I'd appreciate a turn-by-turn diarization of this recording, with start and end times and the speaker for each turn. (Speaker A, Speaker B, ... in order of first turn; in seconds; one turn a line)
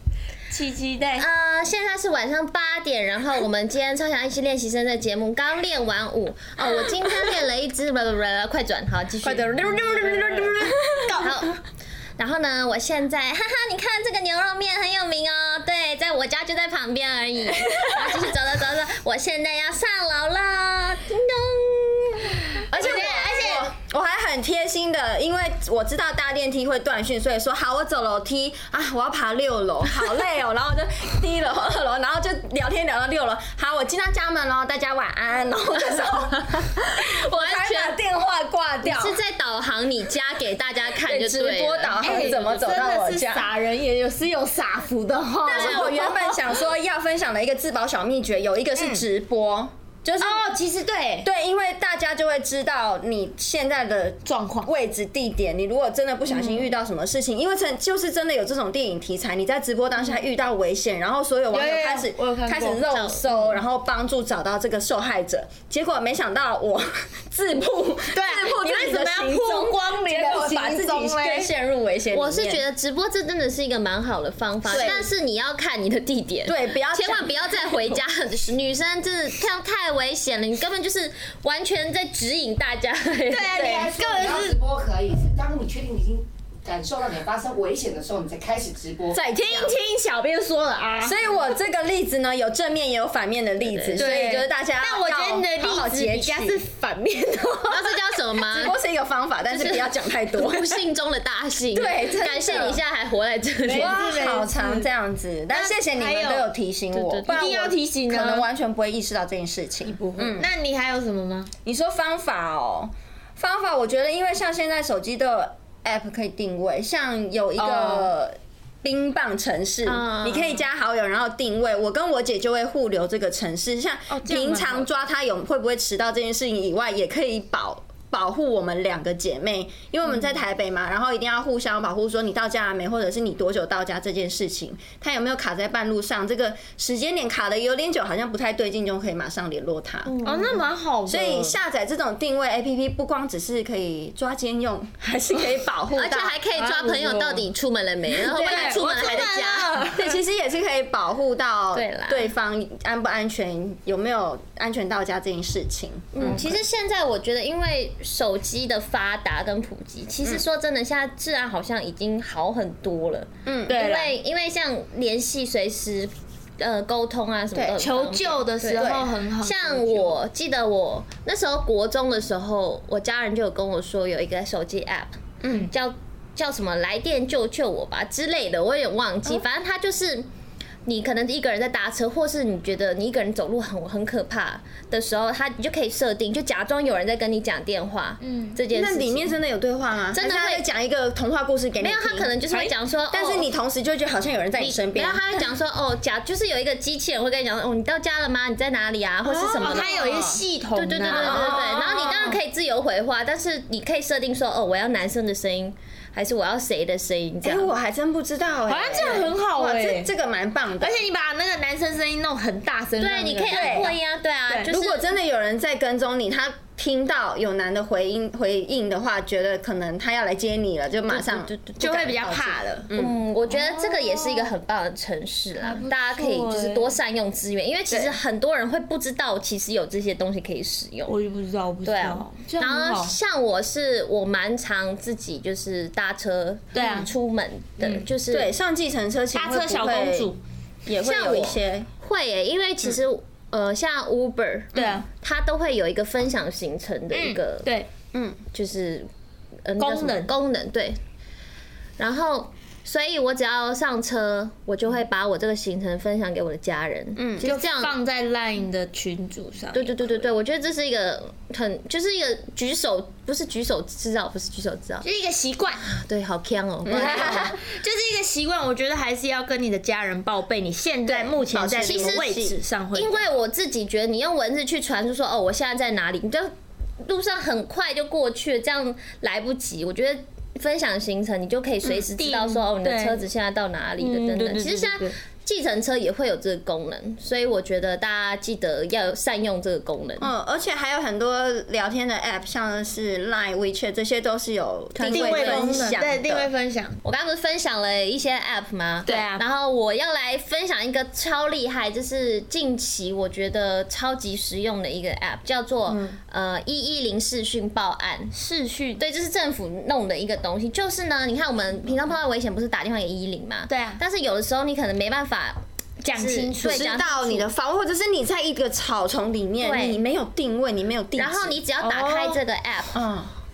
Speaker A: 0.5-1.3
Speaker B: 1.2-9.8
Speaker A: 6.6-7.2
Speaker A: 9.2-11.3
Speaker C: 9.8-11.2
Speaker B: 11.2-11.6
Speaker B: 12.2-23.7
Speaker C: 22.7-39.2
Speaker A: 22.8-23.5
Speaker B: 37.1-38.0
Speaker B: 38.8-42.1
Speaker C: 41.0-43.5
Speaker A: 42.0-46.5
Speaker C: 45.5-50.5
Speaker B: 45.5-45.9
Speaker A: 50.2-51.3
Speaker C: 51.2-72.6
Speaker A: 54.2-54.7
Speaker A: 61.5-62.8
Speaker B: 62.8-63.4
Speaker A: 68.1-71.5
Speaker B: 72.1-83.7
Speaker A: 74.7-75.0
Speaker C: 74.7-75.1
Speaker C: 76.5-78.0
Speaker A: 83.3-84.6
Speaker C: 83.5-83.9
Speaker D: 83.6-89.2
Speaker C: 89.1-89.8
Speaker A: 89.3-91.3
Speaker C: 91.0-96.7
Speaker B: 93.7-94.1
Speaker A: 94.0-98.4
Speaker B: 97.7-98.8
Speaker C: 98.5-100.8
Speaker B: 99.5-104.0
Speaker C: 101.7-102.8
Speaker C: 103.7-110.5
Speaker A: 103.7-104.9
Speaker A: 105.5-106.5
Speaker B: 106.9-107.5
Speaker A: 107.3-108.5
Speaker A: 109.8-111.5
Speaker C: 111.7-140.2
Speaker A: 117.6-118.1
Speaker B: 119.8-120.7
Speaker A: 124.1-124.9
Speaker B: 140.1-140.6
Speaker A: 140.2-141.6
Speaker C: 141.1-146.4
Speaker B: 145.9-149.8
Speaker A: 146.5-147.5
Speaker C: 148.2-149.2
Speaker A: 148.3-150.2
Speaker C: 149.9-156.6
Speaker B: 151.7-152.3
Speaker B: 156.1-180.3
Speaker C: 163.5-163.8
Speaker A: 163.7-164.2
Speaker C: 167.5-167.8
Speaker A: 167.8-170.2
Speaker C: 168.8-169.1
Speaker C: 175.4-175.7
Speaker B: 180.8-189.3
Speaker A: 188.2-188.6
Speaker C: 188.7-192.3
Speaker B: 190.1-190.7
Speaker B: 191.8-193.5
Speaker C: 193.1-195.2
Speaker B: 194.9-207.7
Speaker C: 199.2-200.4
Speaker A: 199.6-202.4
Speaker C: 201.1-202.1
Speaker C: 207.4-211.0
Speaker A: 208.7-210.1
Speaker B: 208.9-209.3
Speaker A: 210.8-214.0
Speaker B: 213.0-215.1
Speaker C: 213.5-213.9
Speaker C: 214.7-223.2
Speaker B: 221.1-222.1
Speaker A: 221.8-222.9
Speaker B: 222.9-231.2
Speaker A: 223.5-224.6
Speaker A: 225.6-227.0
Speaker C: 227.9-228.2
Speaker A: 231.1-233.2
Speaker B: 231.8-238.5
Speaker A: 236.7-237.1
Speaker A: 237.8-238.1
Speaker C: 238.3-240.3
Speaker A: 239.3-240.4
Speaker C: 240.9-241.9
Speaker B: 241.0-247.7
Speaker C: 244.8-245.0
Speaker A: 244.8-245.1
Speaker A: 247.1-247.9
Speaker C: 248.1-248.4
Speaker B: 248.5-249.1
Speaker B: 249.7-251.0
Speaker A: 249.8-250.3
Speaker B: 252.0-258.0
Speaker C: 257.2-257.4
Speaker A: 257.4-260.3
Speaker B: 259.7-265.1
Speaker A: 265.0-265.9
Speaker B: 266.0-267.6
Speaker C: 266.9-267.6
Speaker A: 266.9-273.3
Speaker C: 271.1-272.6
Speaker B: 271.8-272.4
Speaker B: 272.9-290.3
Speaker A: 282.2-283.2
Speaker A: 284.0-285.2
Speaker C: 290.2-296.5
Speaker B: 294.9-295.9
Speaker A: 295.1-297.0
Speaker B: 297.0-308.3
Speaker A: 299.1-299.4
Speaker A: 305.9-306.2
Speaker A: 308.3-309.0
Speaker B: 309.0-317.5
Speaker A: 313.7-314.0
Speaker A: 316.0-317.0
Speaker C: 316.6-321.6
Speaker B: 319.6-320.0
Speaker B: 321.2-323.0
Speaker A: 321.8-322.4
Speaker C: 322.9-323.3